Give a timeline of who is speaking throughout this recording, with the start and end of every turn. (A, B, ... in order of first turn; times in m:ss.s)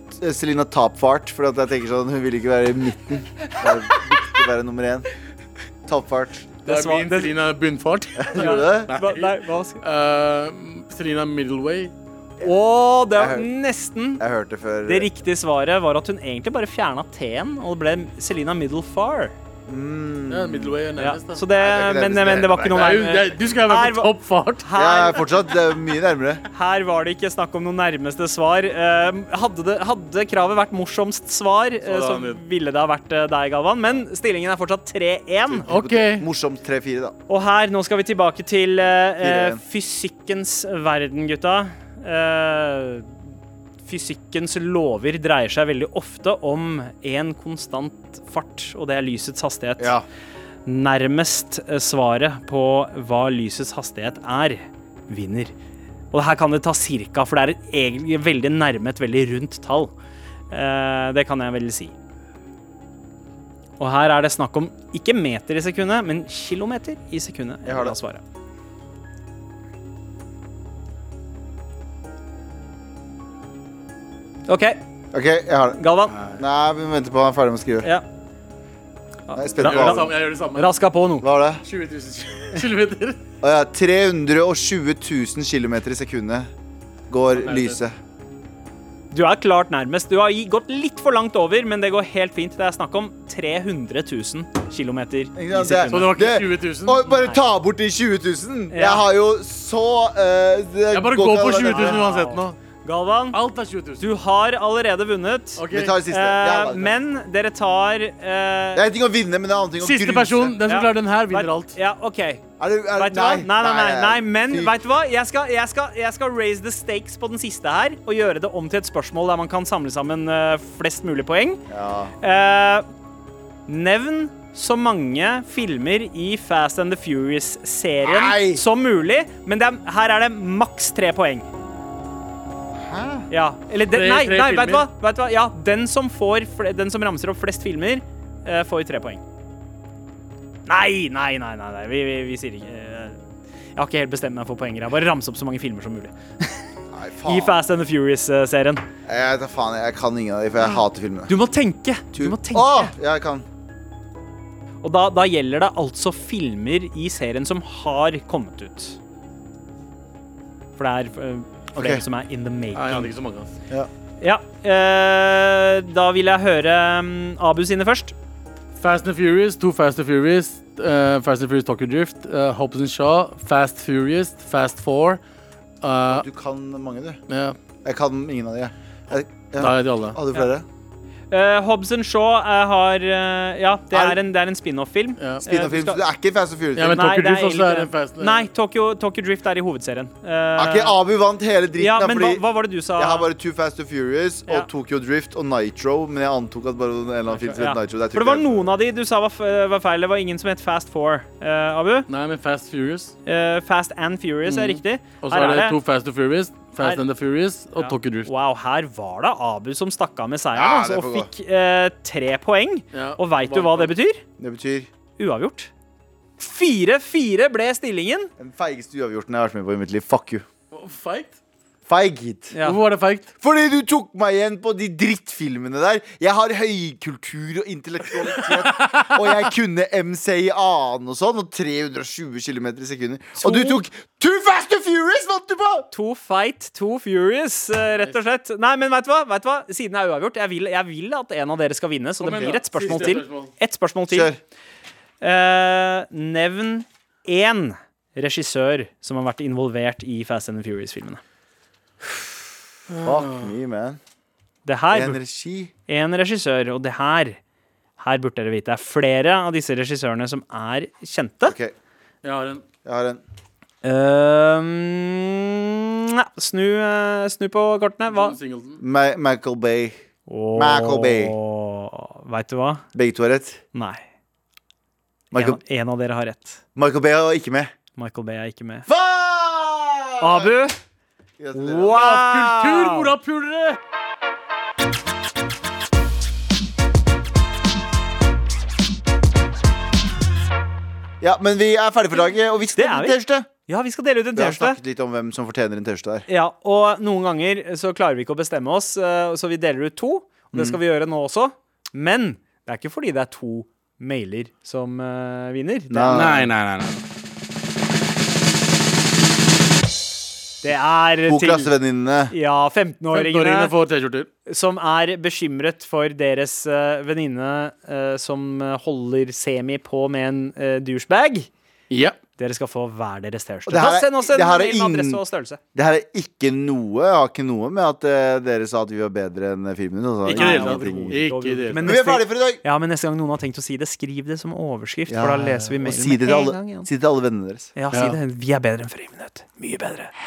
0:00.2-0:05.1 A
0:05.8-0:06.5 A
0:06.6-0:07.3 B
0:06.6-0:11.9 C
0:08.2-0:08.9 A
0:08.3-0:09.8 B
0:12.4-0:14.2 B
0:13.2-0:13.5 A
0:14.2-0:15.1 A
0:14.8-0:19.4 B
0:19.7-0:20.8 A
0:20.3-0:21.4 C
0:21.0-0:25.5 B
0:21.5-0:23.0 A
0:22.7-0:24.7 C
0:24.7-0:26.4 A
0:26.5-0:35.7 B
0:31.8-0:32.4 C
0:35.5-0:37.1 A
0:35.7-0:36.2 C
0:37.3-0:43.2 B
0:39.2-0:39.6 A
0:43.8-0:49.9 B
0:49.8-0:50.0 A
0:50.6-0:55.5 B
0:56.1-0:59.9 B
1:00.5-1:01.9 B
1:03.8-1:08.2 B
1:07.6-1:08.0 A
1:14.5-1:14.8 B
1:15.1-1:17.9 A
1:15.8-1:16.1 B
1:19.3-1:21.3 B
1:19.3-1:20.1 A
1:19.6-1:20.7 C
1:21.2-1:21.6 A
1:21.6-1:23.2 C
1:23.4-1:26.5 A
1:27.1-1:28.0 A
1:27.4-1:27.8 C
1:29.1-1:36.2 B
1:35.4-1:42.0 A
1:35.9-1:37.0 C
1:38.7-1:39.0 B
1:40.9-1:42.6 C
1:41.7-1:43.4 B
1:43.3-1:44.0 C
1:44.0-1:48.8 B
1:45.6-1:46.0 C
1:45.7-1:46.9 A
1:48.7-1:50.6 A
1:49.8-1:51.7 C
1:50.6-1:52.4 B
1:52.6-1:54.8 A
1:53.0-2:01.6 B
2:01.7-2:02.1 A
2:02.2-2:02.8 B
2:03.7-2:11.5 B
2:08.0-2:08.6 A
2:12.7-2:13.3 A
2:13.3-2:19.2 B
2:13.9-2:14.8 C
2:20.7-2:23.2 B
2:23.8-2:26.6 B
2:26.9-2:27.6 A
2:27.2-2:28.8 B
2:29.0-2:31.3 A
2:31.3-2:32.9 B
2:32.1-2:33.4 A
2:34.8-2:39.0 B
2:40.8-2:43.1 B
2:41.7-2:42.0 A
2:42.7-2:43.5 C
2:44.2-2:48.1 B
2:48.8-2:55.2 C
2:55.8-2:56.2 C
2:56.1-2:57.2 A
2:57.3-2:57.6 C
2:57.8-3:00.6 A
2:59.6-3:00.2 C
3:01.3-3:06.0 B
3:03.9-3:04.2 A
3:05.4-3:07.0 A
3:06.8-3:08.5 C
3:06.9-3:10.9 B
3:10.6-3:12.4 A
3:11.8-3:13.3 B
3:13.0-3:18.7 A
3:17.3-3:22.1 B
3:22.1-3:23.1 C
3:23.2-3:25.8 B
3:24.4-3:28.3 C
3:27.8-3:34.2 B
3:30.5-3:31.3 A
3:32.9-3:33.9 C
3:34.4-3:34.9 A
3:35.2-3:35.7 B
3:36.4-3:38.3 B
3:38.4-3:40.4 A
3:40.7-3:41.4 C
3:41.9-3:42.5 A
3:42.5-3:42.8 B
3:42.6-3:43.3 C
3:43.4-3:55.9 A
3:53.4-3:53.7 B
3:55.9-4:04.3 B
4:02.2-4:03.5 C
4:04.1-4:04.4 A
4:05.2-4:11.2 B
4:12.9-4:13.5 C
4:13.0-4:14.0 A
4:14.6-4:15.2 B
4:14.9-4:15.7 A
4:15.9-4:17.4 B
4:18.0-4:21.6 B
4:21.4-4:21.7 A
4:22.2-4:22.6 C
4:22.8-4:23.2 A
4:23.8-4:28.4 B
4:28.1-4:28.8 C
4:28.8-4:30.0 A
4:30.3-4:32.8 B
4:30.5-4:31.3 A
4:32.9-4:33.6 A
4:33.7-4:34.0 B
4:35.3-4:35.6 A
4:35.3-4:36.6 B
4:36.8-4:37.7 A
4:37.9-4:38.9 B
4:38.9-4:40.5 A
4:40.2-4:40.8 B
4:41.4-4:42.0 A
4:41.5-4:43.1 B
4:41.8-4:43.8 C
4:51.2-4:53.5 A
4:52.8-4:54.8 B
4:54.3-4:56.3 A
4:56.3-5:06.3 B
5:00.5-5:00.8 A
5:05.9-5:06.5 A
5:06.1-5:07.0 C
5:10.6-5:11.7 B
5:11.3-5:12.3 A
5:12.3-5:13.7 B
5:13.1-5:14.3 C
5:14.5-5:21.5 B
5:21.9-5:22.2 C
5:22.4-5:25.6 B
5:23.6-5:25.2 A
5:25.7-5:31.2 A
5:30.2-5:31.9 C
5:30.3-5:36.9 B
5:31.7-5:32.6 A
5:35.1-5:37.7 A
5:37.7-5:40.1 B
5:37.9-5:38.2 C